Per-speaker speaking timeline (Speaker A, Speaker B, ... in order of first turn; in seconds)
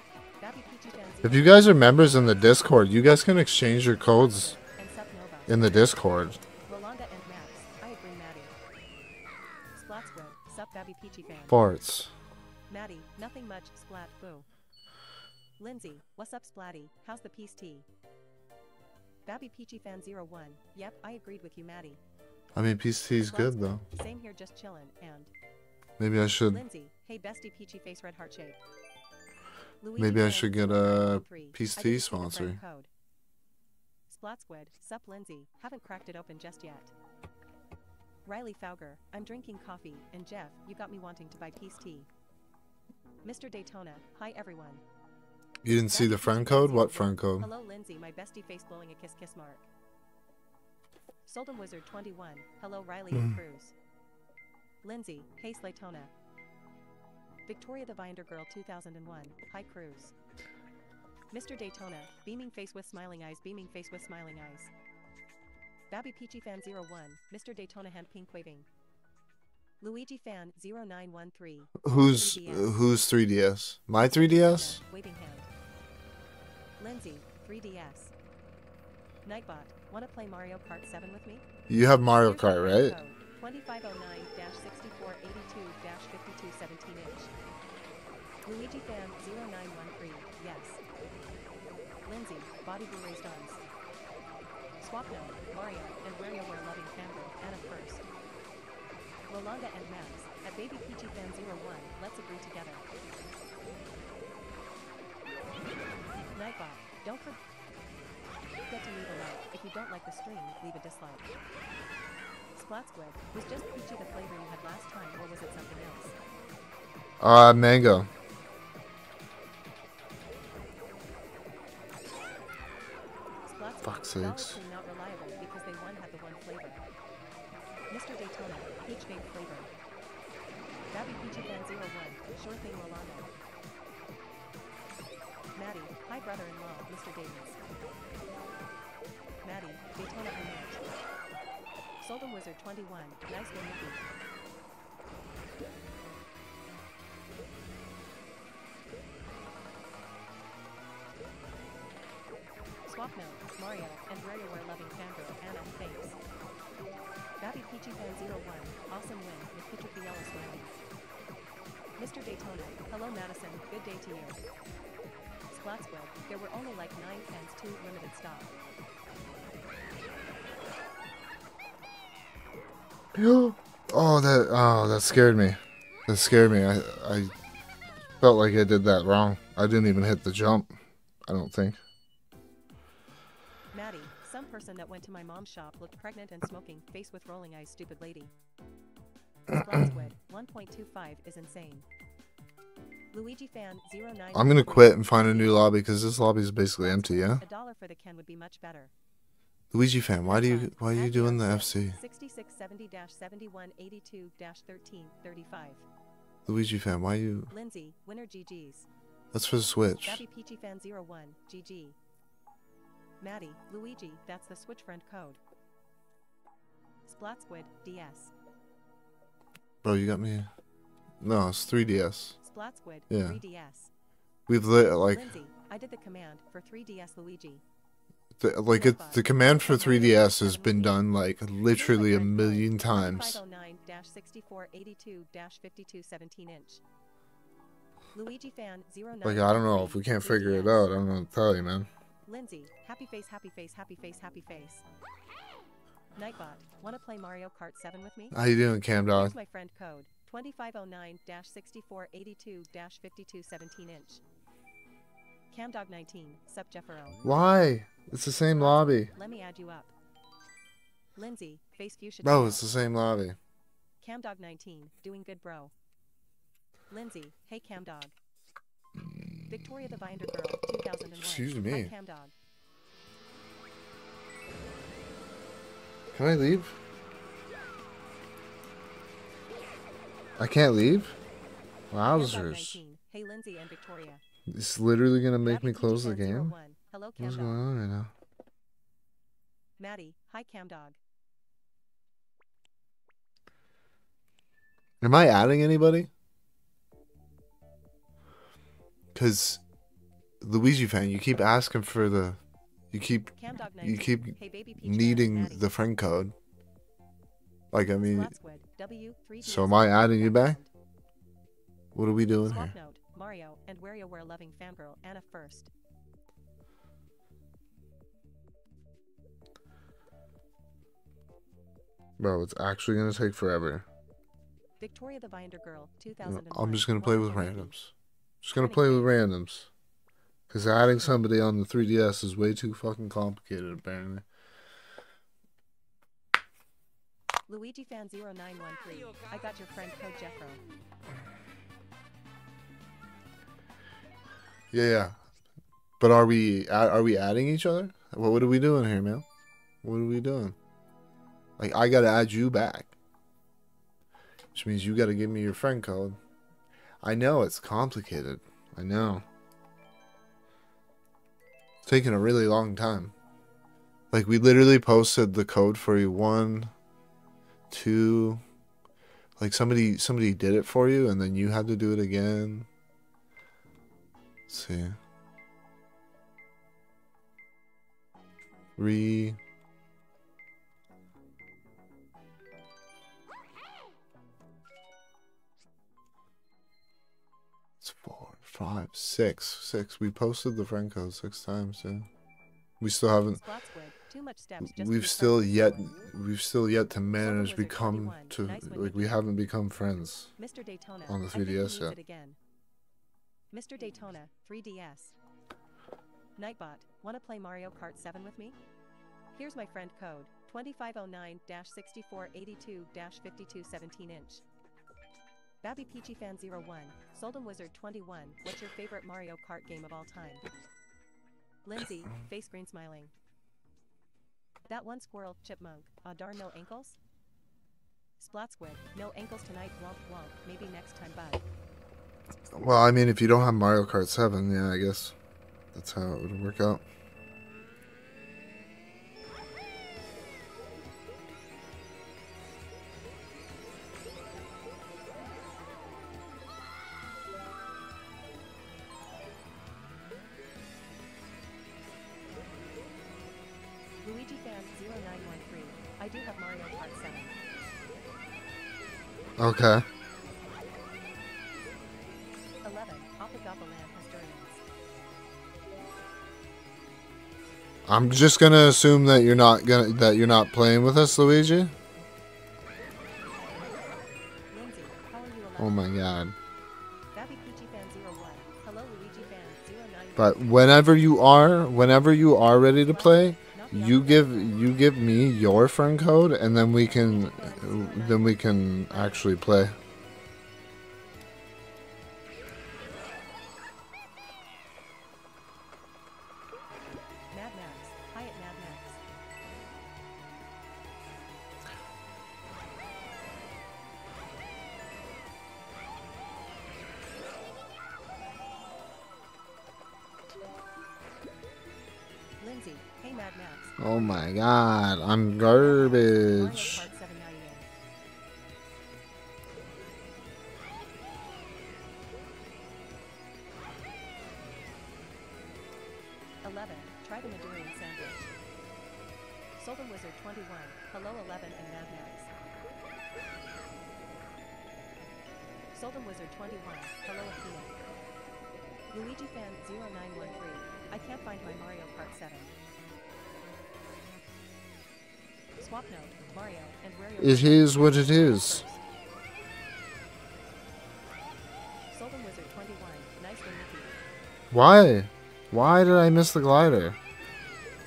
Speaker A: 0.4-2.1, 4.1-5.9, 6.7-8.5, 9.7-11.6, 12.7-14.5, 15.6-17.9, 19.3-22.0, 23.2-25.3, 26.5-28.6, 29.8-32.9, 34.1-36.9, 38.2-42.1, 43.2-44.8, 45.9-49.7, 51.3-53.7, 54.8-56.1, 57.5-60.1, 61.3-64.7, 65.9-68.7, 69.8-72.8, 74.1-75.5, 76.8-78.1, 79.2-81.5, 82.2-87.3, 88.5-90.8, 92.1-93.6, 94.8-98.0, 99.3-102.8, 106.3-107.4, 108.7-111.3, 112.5-116.2, 123.5-126.8, 127.9-129.7, 130.9-133.3, 135.6-137.6, 139.4-140.8, 142.0-144.0, 152.9-156.2, 157.4-160.8, 162.0-164.4, 165.5-168.6, 183.7-188.3, 189.5-191.9, 193.1-195.7, 196.8-198.9, 200.3-205.9, 207.5-208.9, 210.0-212.0, 213.2-215.4, 217.1-218.3, 222.4-223.9, 225.1-227.6, 228.7-231.1, 231.7-236.8, 238.1-240.9, 242.3-244.8, 246.2-248.4, 249.0-254.2, 255.5-257.2, 258.5-259.9, 261.2-262.7, 264.0-265.7, 266.9-268.1, 269.5-272.3, 282.1-284.2, 285.5-287.6, 289.8-291.0, 303.3-305.7, 308.0-310.7, 312.5-315.7, 324.8-327.7, 328.6-329.1, 337.5-340.6, 393.3-395.9, 397.2-399.2, 400.4-402.4, 403.5-405.1, 406.4-408.6, 409.3-414.4, 415.6-420.4, 421.6-423.1, 424.7-427.0, 428.2-431.4, 454.0-457.4, 462.6-464.6, 474.5-476.1, 477.1-480.9, 482.8-484.7, 486.7-489.4, 497.3-499.0, 512.4-514.2, 515.5-517.7, 526.4-528.3, 529.6-532.3, 535.7-537.8, 538.9-542.5, 545.6-548.8, 551.9-554.0
Speaker B: 1.2-4.6, 5.5-6.4, 11.5-12.1, 22.6-23.9, 26.0-26.6, 30.0-32.6, 45.6-47.5, 53.1-53.4, 71.8-74.8, 81.7-83.0, 117.2-118.1, 123.8-124.6, 173.1-177.3, 178.2-180.7, 181.3-181.8, 194.3-197.4, 199.7-202.0, 206.5-207.5, 209.3-210.2, 219.8-220.5, 221.2-222.3, 223.1-223.4, 224.5-225.3, 228.4-233.4, 239.2-241.9, 248.3-249.4, 257.2-259.1, 262.2-263.4, 271.2-271.9, 276.1-276.8, 280.4-281.1, 281.9-282.8, 284.5-286.5, 287.2-288.1, 295.0-296.1, 299.1-299.6, 300.4-302.4, 302.9-306.4, 307.7-308.3, 309.4-310.6, 311.9-312.7, 322.2-323.9, 326.2-329.7, 330.5-334.2, 344.7-345.2, 346.0-349.3, 349.8-350.6, 351.6-352.9, 354.5-356.2, 357.0-359.3, 361.9-363.1, 364.1-366.7, 367.7-368.4, 369.4-372.7, 374.5-375.0, 378.8-379.4, 387.8-392.1, 392.8-393.4, 394.6-400.3, 401.1-402.0, 432.5-435.1, 435.7-436.8, 459.4-459.9, 467.9-471.7, 475.6-476.4, 480.2-489.8, 513.8-516.9, 547.2-548.7, 554.5-557.0